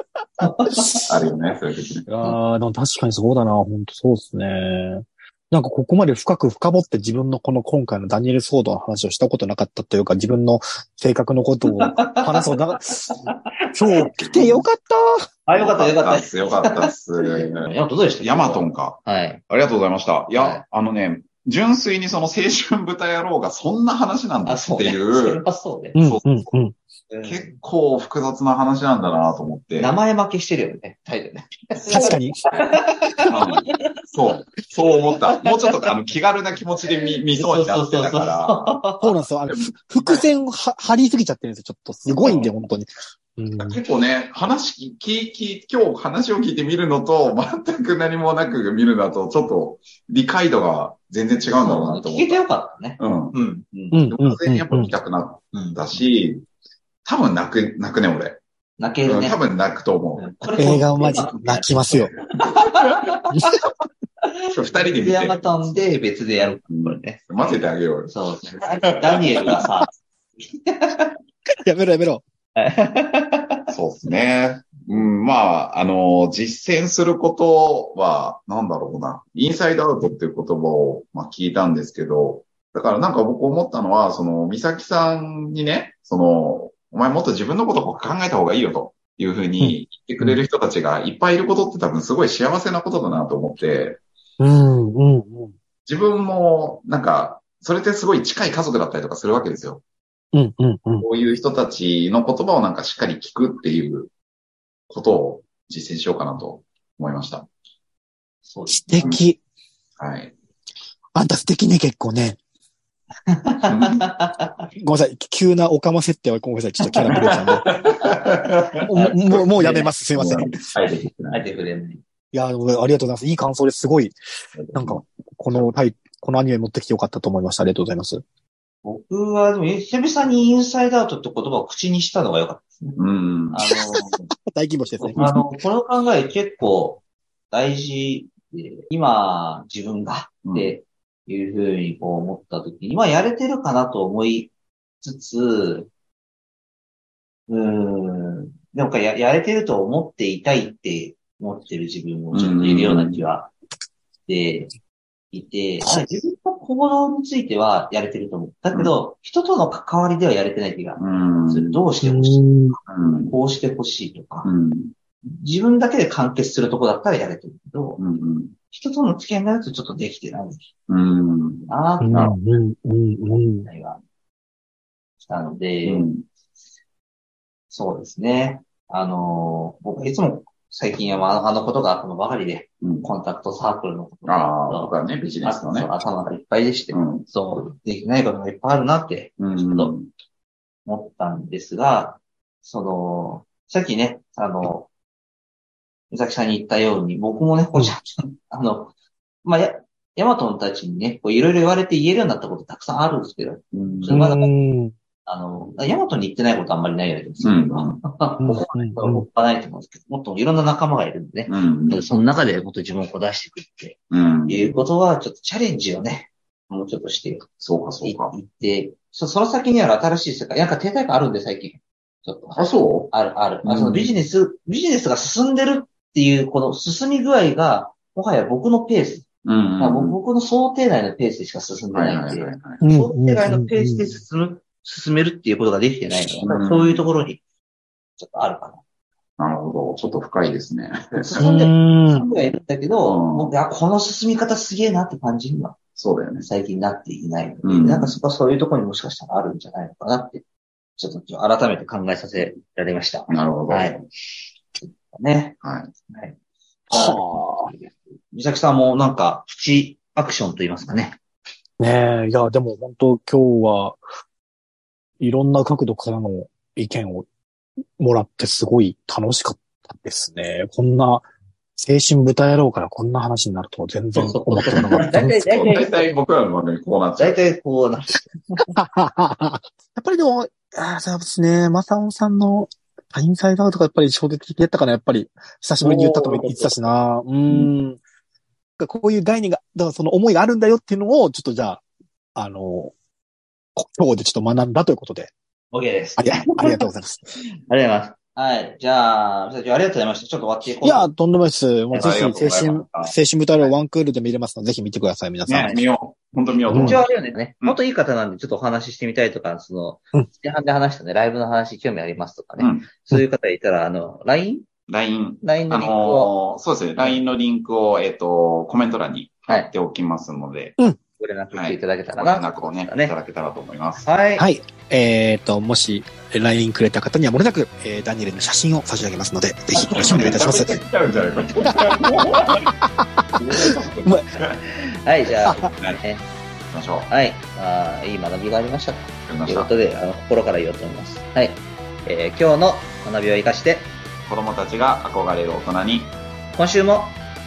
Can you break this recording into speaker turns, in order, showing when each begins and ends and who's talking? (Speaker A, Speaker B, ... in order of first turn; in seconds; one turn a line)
Speaker A: 0.4-1.1
Speaker B: 1.0-2.1
Speaker C: 2.1-13.2
Speaker A: 11.8-12.5
Speaker A: 13.2-14.6
Speaker C: 13.7-15.3
Speaker B: 14.2-14.5
Speaker A: 15.4-19.4
Speaker B: 15.5-17.7
Speaker B: 18.2-25.4
Speaker A: 20.4-20.6
Speaker A: 24.4-26.0
Speaker C: 25.9-26.7
Speaker A: 27.1-27.6
Speaker B: 27.2-29.9
Speaker A: 29.8-33.8
Speaker C: 31.9-32.4
Speaker B: 33.3-38.6
Speaker A: 35.4-35.9
Speaker A: 37.3-39.1
Speaker C: 39.0-43.8
Speaker B: 39.5-40.3
Speaker B: 42.1-42.5
Speaker B: 43.6-52.4
Speaker A: 51.5-54.0
Speaker B: 53.0-53.4
Speaker C: 53.9-54.9
Speaker B: 54.0-56.4
Speaker A: 55.5-55.8
Speaker B: 57.0-58.4
Speaker A: 58.8-59.4
Speaker B: 59.0-60.7
Speaker A: 60.2-63.6
Speaker C: 60.6-62.1
Speaker A: 64.2-69.9
Speaker B: 64.5-65.7
Speaker B: 66.7-68.1
Speaker B: 68.8-69.6
Speaker A: 70.5-71.1
Speaker C: 71.6-72.2
Speaker A: 72.5-73.7
Speaker B: 73.7-94.0
Speaker C: 89.6-90.4
Speaker C: 94.4-95.5
Speaker B: 95.9-99.8
Speaker C: 100.3-101.0
Speaker B: 101.0-104.1
Speaker B: 104.9-107.5
Speaker A: 108.4-109.2
Speaker C: 108.7-109.4
Speaker B: 110.0-110.3
Speaker C: 111.1-112.4
Speaker A: 113.3-114.6
Speaker B: 113.7-114.0
Speaker C: 114.7-117.7
Speaker A: 116.9-118.0
Speaker B: 117.1-121.5
Speaker C: 118.8-120.6
Speaker A: 118.9-119.9
Speaker A: 120.8-122.0
Speaker C: 122.3-124.2
Speaker B: 124.6-125.6
Speaker C: 124.7-128.2
Speaker A: 128.8-133.0
Speaker B: 132.9-134.2
Speaker A: 133.5-134.1
Speaker C: 133.7-135.2
Speaker A: 135.1-145.9
Speaker B: 135.1-135.4
Speaker B: 140.4-140.7
Speaker A: 147.5-153.5
Speaker B: 152.3-153.2
Speaker A: 154.3-154.7
Speaker A: 155.3-162.4
Speaker B: 161.0-161.8
Speaker C: 162.0-162.8
Speaker B: 162.9-163.3
Speaker A: 163.3-164.5
Speaker B: 164.4-164.9
Speaker A: 165.3-168.0
Speaker B: 168.0-168.5
Speaker A: 168.7-170.7
Speaker B: 170.9-172.3
Speaker A: 171.7-172.2
Speaker C: 172.0-173.7
Speaker A: 173.6-174.0
Speaker A: 175.2-176.1
Speaker B: 175.8-176.2
Speaker A: 177.7-189.9
Speaker B: 182.8-183.1
Speaker B: 184.2-185.9
Speaker B: 186.9-187.2
Speaker B: 189.4-190.1
Speaker A: 190.8-194.9
Speaker A: 196.1-204.5
Speaker B: 203.7-204.2
Speaker C: 204.1-204.9
Speaker A: 205.2-217.5
Speaker B: 207.4-208.6
Speaker C: 208.4-209.2
Speaker B: 211.5-212.0
Speaker B: 214.1-214.8
Speaker B: 217.6-218.3
Speaker A: 218.0-229.2
Speaker B: 222.6-223.1
Speaker B: 223.6-224.1
Speaker B: 229.4-230.2
Speaker A: 229.8-237.4
Speaker B: 231.9-232.8
Speaker C: 232.8-234.1
Speaker B: 236.4-237.1
Speaker A: 238.2-238.8
Speaker B: 239.4-241.4
Speaker A: 241.2-245.8
Speaker C: 241.4-242.3
Speaker B: 243.0-243.5
Speaker B: 245.9-246.5
Speaker A: 246.4-250.4
Speaker B: 247.6-248.2
Speaker A: 251.0-254.0
Speaker B: 253.3-254.0
Speaker A: 255.1-255.6
Speaker B: 255.6-255.9
Speaker A: 256.1-256.4
Speaker C: 256.9-257.7
Speaker A: 256.9-261.2
Speaker C: 261.8-264.0
Speaker C: 265.2-267.3
Speaker C: 268.0-275.4
Speaker A: 274.1-276.1
Speaker B: 274.7-277.4
Speaker A: 277.1-278.8
Speaker C: 278.7-288.0
Speaker A: 285.8-286.9
Speaker C: 288.8-291.8
Speaker C: 292.3-292.9
Speaker C: 293.8-295.3
Speaker A: 295.7-296.9
Speaker C: 296.2-297.3
Speaker A: 297.7-301.1
Speaker C: 300.8-305.8
Speaker A: 301.9-302.2
Speaker B: 301.9-303.1
Speaker B: 305.5-307.8
Speaker C: 306.7-307.0
Speaker A: 306.7-314.7
Speaker B: 312.6-312.9
Speaker B: 314.9-320.8
Speaker A: 315.4-316.3
Speaker A: 321.2-323.1
Speaker B: 321.5-324.0
Speaker A: 324.0-324.4
Speaker C: 324.4-330.8
Speaker B: 329.8-332.7
Speaker C: 332.7-333.1
Speaker B: 333.4-334.6
Speaker A: 334.7-336.2
Speaker B: 335.7-336.0
Speaker B: 336.7-337.1
Speaker A: 337.1-343.9
Speaker B: 339.3-339.7
Speaker B: 344.3-346.1
Speaker A: 346.6-347.2